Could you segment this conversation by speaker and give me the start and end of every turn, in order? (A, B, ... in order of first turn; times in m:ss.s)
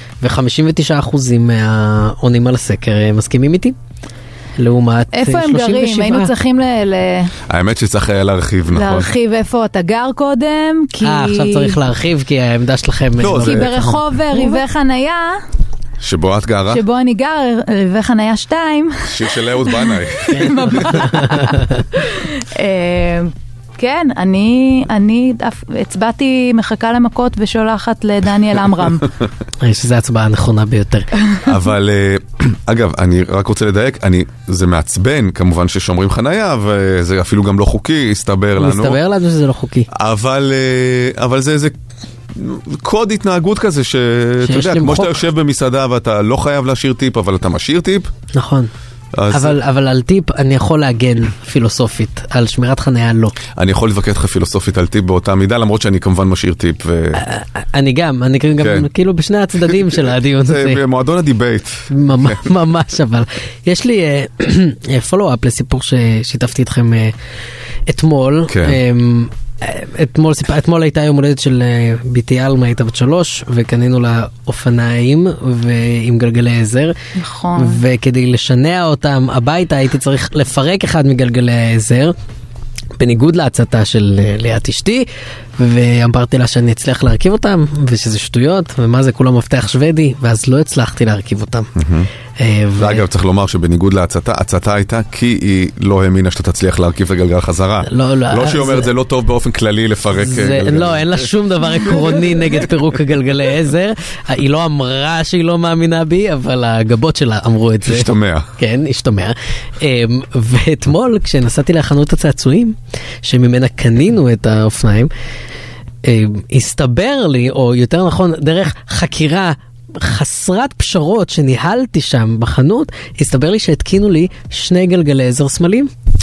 0:00.2-0:03.7 A
0:04.6-0:06.3 A
0:05.1-0:07.3 B
0:07.5-0:09.1 C
0:08.7-0:11.8 B
0:11.0-0:14.6 A
0:13.2-0:13.8 C
0:13.4-0:15.4 B
0:16.0-0:16.8 C
0:16.7-0:29.1 B
0:19.0-0:20.9 C
0:20.3-0:21.8 A
0:29.6-0:31.1 A
0:31.4-0:39.0 C
0:38.6-0:39.9 A
0:39.9-0:41.7 C
0:42.3-0:48.1 C
0:44.4-0:45.2 A
0:48.3-0:48.7 A
0:49.1-0:49.6 C
0:49.3-0:53.3 A
0:53.6-0:57.2 C
0:57.2-1:00.8 A
0:58.6-0:58.9 C
0:59.7-1:02.4 C
1:01.9-1:07.1 A
1:07.9-1:16.9 A
1:08.5-1:08.8 C
1:17.2-1:17.8 B
1:17.6-1:22.1 A
1:23.0-1:25.1 A
1:25.6-1:31.7 A
1:31.8-1:32.1 C
1:32.4-1:33.0 A
1:32.8-1:42.6 C
1:37.8-1:38.9 A
1:40.2-1:55.1 A
1:47.8-1:48.5 C
1:56.0-2:05.9 A